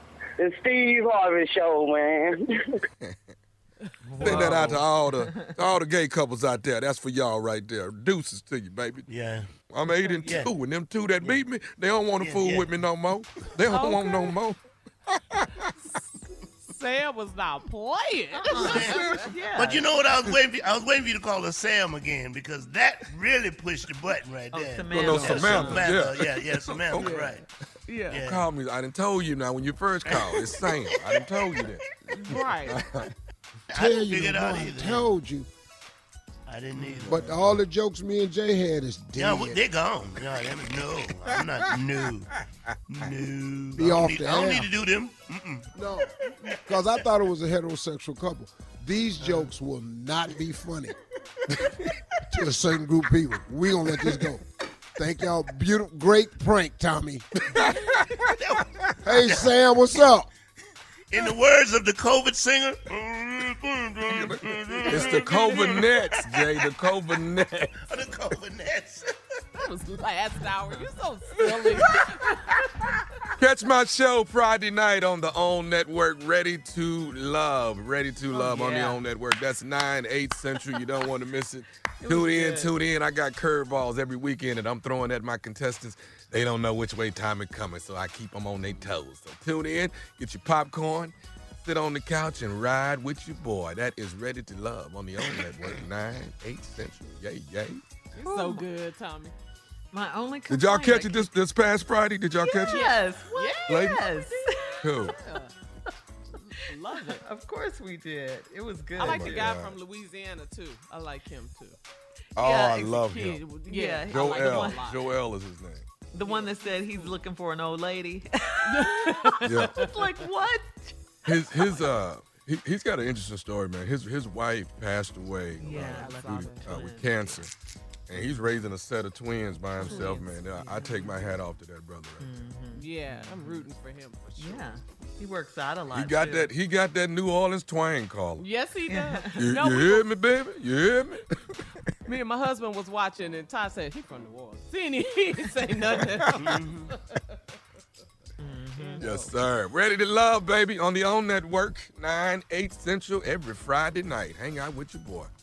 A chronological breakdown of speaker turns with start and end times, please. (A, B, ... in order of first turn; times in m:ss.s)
0:00.4-0:02.8 A
0:04.1-0:05.4 B
0:04.2-0:09.1 C
0:04.2-0:04.5 D
0:09.1-0:09.5 E
0:09.7-0:14.6 C
0:10.2-0:10.5 E
0:12.2-0:12.7 E
0:13.7-0:14.4 D
0:15.3-0:15.7 C
0:16.6-0:19.3 D
0:18.5-0:19.9 B
0:18.5-0:27.5 E
0:24.5-0:26.0 B
0:24.9-0:27.2 C
0:27.0-0:28.2 D
0:28.1-0:28.5 E
0:28.2-0:31.8 C
0:30.1-0:31.5 E
0:32.1-0:32.8 D
0:32.6-0:33.1 C
0:33.7-0:35.1 E
0:33.7-0:35.5 F
0:36.5-0:37.6 E
0:37.0-0:39.6 F
0:39.2-0:42.3 E
0:42.9-0:45.7 E
0:43.7-0:44.7 F
0:45.7-0:51.0 F
0:46.5-0:46.8 E
0:52.3-0:54.4 F
0:55.0-0:57.3 F
0:57.6-0:58.0 C
0:58.4-0:59.6 E
0:59.0-1:00.3 F
1:01.1-1:06.6 E
1:04.1-1:07.8 C
1:07.8-1:09.1 E
1:09.6-1:13.0 D
1:11.7-1:11.9 C
1:13.4-1:37.8 C
1:18.3-1:19.0 D
1:22.0-1:22.7 D
1:38.1-1:39.4 D
1:38.2-1:38.7 B
1:39.9-1:41.3 B
1:40.5-1:42.9 C
1:42.4-1:45.5 D
1:42.4-1:44.7 B
1:43.7-1:44.0 C
1:44.8-1:45.2 C
1:46.4-1:47.2 D
1:47.1-1:49.5 B
1:49.0-1:51.8 D
1:49.0-1:49.8 C
1:52.4-1:53.4 C
1:52.4-1:53.0 B
1:52.9-1:55.2 D
1:53.7-1:54.8 B
1:54.1-1:55.9 C
1:56.1-2:01.0 B
1:56.2-1:57.1 D
1:58.6-2:00.0 D
1:59.5-1:59.8 C
2:01.2-2:07.5 C
2:05.6-2:07.4 B
2:05.7-2:06.8 D
2:08.1-2:12.5 C
2:09.8-2:11.4 B
2:09.8-2:10.1 D
2:12.2-2:13.7 B
2:12.7-2:14.7 D
2:14.4-2:16.5 B
2:15.9-2:18.5 C
2:18.4-2:20.2 D
2:18.9-2:19.4 B
2:19.4-2:21.5 C
2:22.0-2:27.2 D
2:26.3-2:26.9 E
2:28.4-2:29.1 B
2:28.8-2:29.3 D
2:29.0-2:35.3 C